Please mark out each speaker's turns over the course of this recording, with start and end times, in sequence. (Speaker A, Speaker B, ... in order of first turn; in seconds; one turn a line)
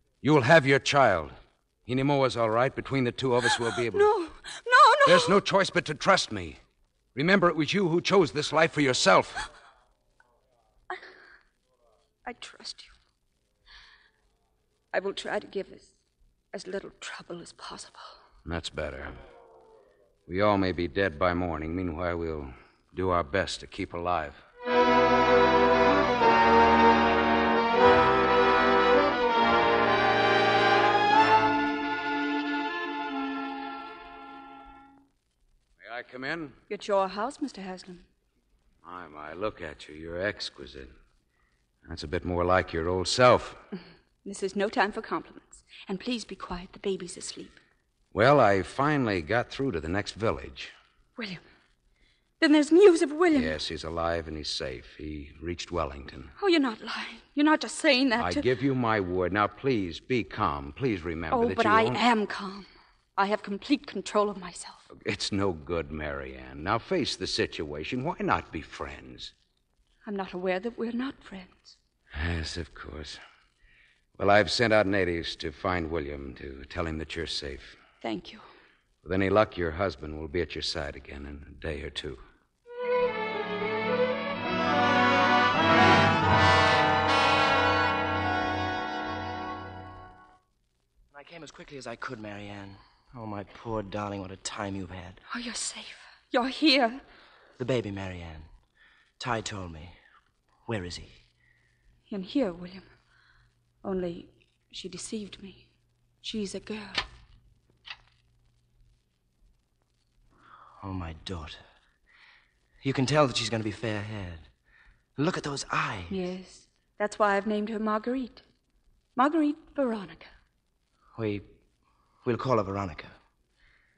Speaker A: 0.2-4.1
Speaker B: 3.7-5.4
Speaker A: 5.0-6.6
Speaker A: 7.1-9.4
Speaker B: 12.2-12.9
Speaker B: 14.9-15.9
Speaker B: 16.5-18.2
Speaker A: 18.4-19.1
Speaker A: 20.3-24.4
Speaker A: 35.8-36.6
Speaker B: 36.7-38.0
Speaker A: 38.8-40.9
Speaker A: 41.9-43.6
Speaker B: 44.2-47.6
Speaker A: 48.1-50.7
Speaker B: 52.4-53.5
Speaker A: 53.3-56.3
Speaker B: 56.4-58.5
Speaker A: 58.2-62.0
Speaker B: 61.3-64.9
Speaker A: 64.9-69.3
Speaker B: 70.0-71.8
Speaker A: 72.1-73.2
Speaker A: 74.2-77.8
Speaker B: 78.0-78.4
Speaker A: 79.0-82.2
Speaker C: 91.1-95.2
Speaker B: 95.3-97.0
Speaker C: 97.6-98.5
Speaker C: 99.2-100.0
Speaker C: 100.7-101.1
Speaker B: 102.1-102.8
Speaker B: 103.8-105.6
Speaker B: 106.2-107.0
Speaker C: 110.8-111.6
Speaker C: 112.8-114.5
Speaker C: 115.2-116.2
Speaker B: 116.1-118.4
Speaker B: 119.2-120.3
Speaker C: 121.1-121.5
Speaker C: 122.2-123.1